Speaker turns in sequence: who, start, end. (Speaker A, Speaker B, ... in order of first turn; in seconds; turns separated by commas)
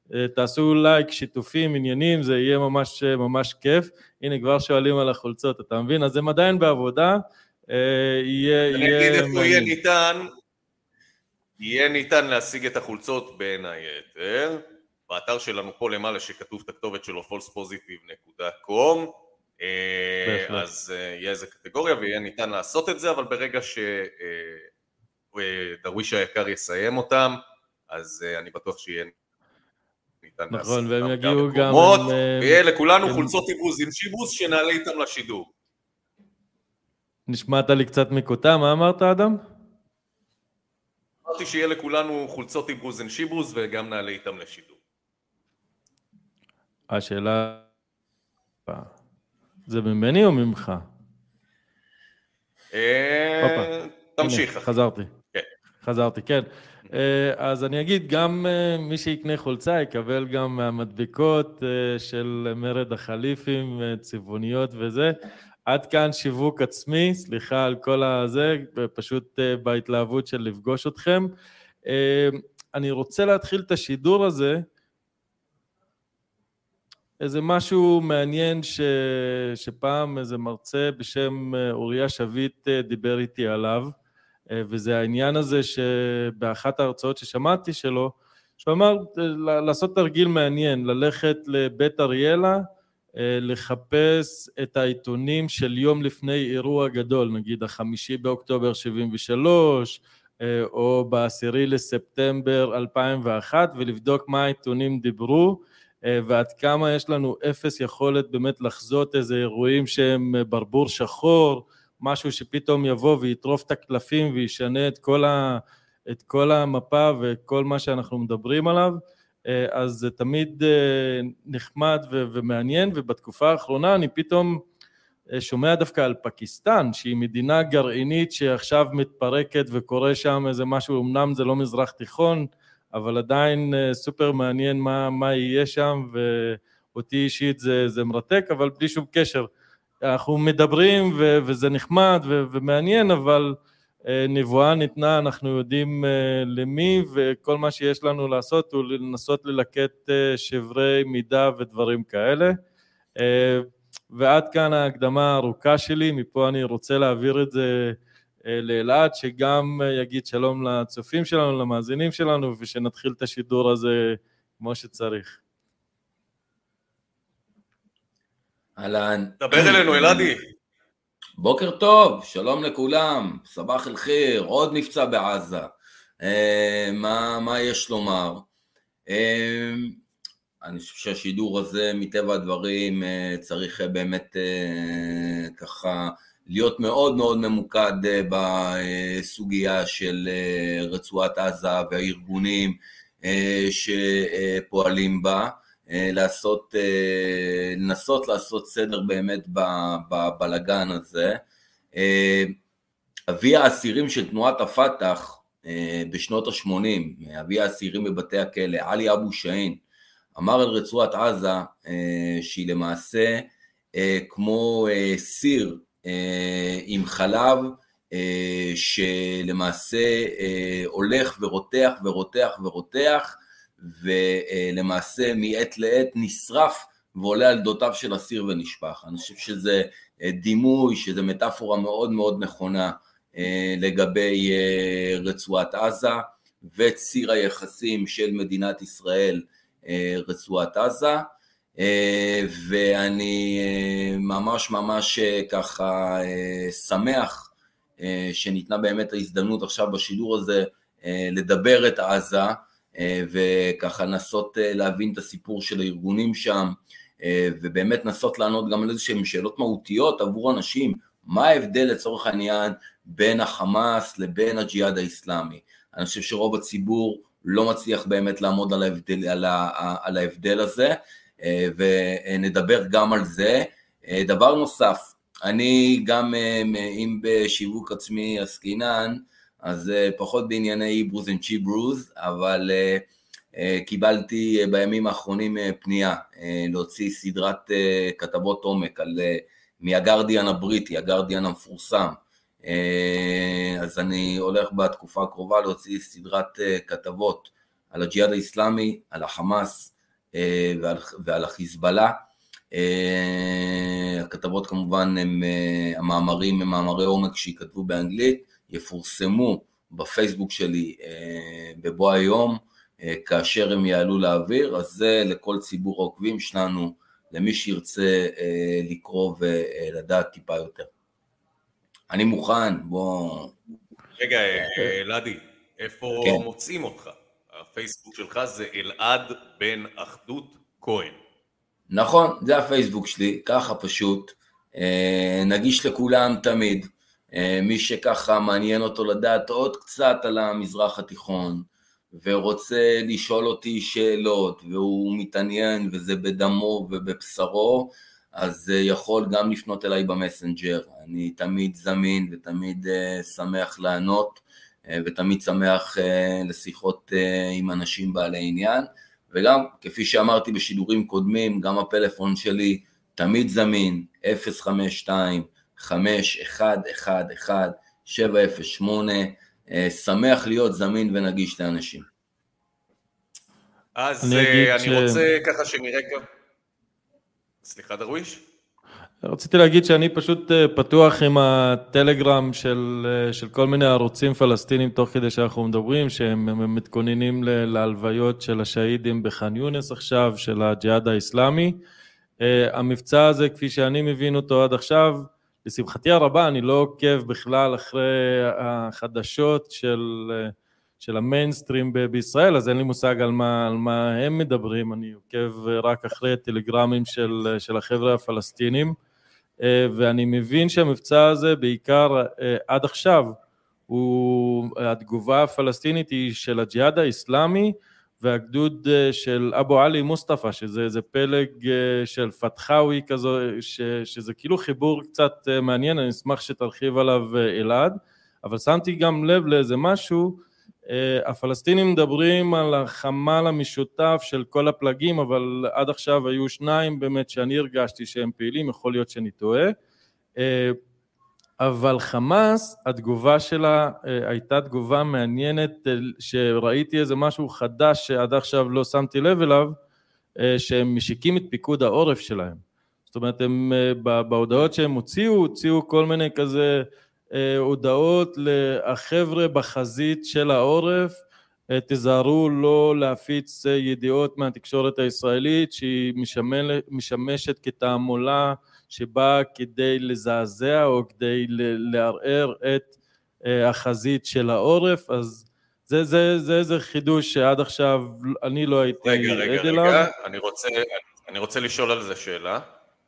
Speaker A: 0.1-7.2, Speaker A: 7.7-9.7, Speaker B: 8.7-10.2, Speaker B: 11.6-24.7, Speaker A: 20.2-20.6, Speaker B: 25.3-27.4, Speaker B: 27.9-29.1, Speaker B: 30.2-35.5, Speaker A: 30.5-33.3, Speaker A: 37.3-39.4, Speaker B: 41.2-44.8, Speaker A: 46.9-47.6, Speaker A: 48.7-48.9, Speaker A: 49.7-50.9, Speaker B: 52.7-54.7, Speaker A: 53.4-53.7, Speaker A: 54.2-55.1, Speaker A: 55.8-65.1, Speaker A: 65.7-71.3, Speaker A: 71.9-74.6, Speaker A: 77.2-83.9, Speaker A: 84.5-92.6, Speaker A: 93.2-124.6, Speaker A: 125.3-139.5, Speaker A: 140.0-143.6, Speaker A: 144.1-152.6, Speaker A: 153.2-157.9, Speaker A: 158.5-165.4, Speaker C: 168.8-170.3, Speaker B: 169.4-170.4, Speaker C: 171.4-178.4, Speaker C: 179.1-180.0, Speaker C: 180.6-201.4, Speaker C: 201.9-202.6, Speaker C: 203.3-209.8, Speaker C: 210.3-302.2, Speaker C: 302.7-320.9, Speaker C: 322.1-323.5, Speaker B: 324.2-331.2, Speaker C: 331.9-372.1, Speaker B: 373.9-376.2, Speaker A: 374.2-375.2, Speaker B: 377.6-378.4, Speaker A: 379.2-391.8, Speaker A: 392.4-408.9, Speaker A: 409.6-413.4, Speaker A: 413.9-439.7, Speaker A: 440.4-440.8, Speaker A: 441.6-449.8, Speaker A: 450.4-456.7, Speaker A: 457.4-461.2, Speaker A: 461.7-472.9, Speaker A: 473.5-480.1, Speaker B: 479.0-482.6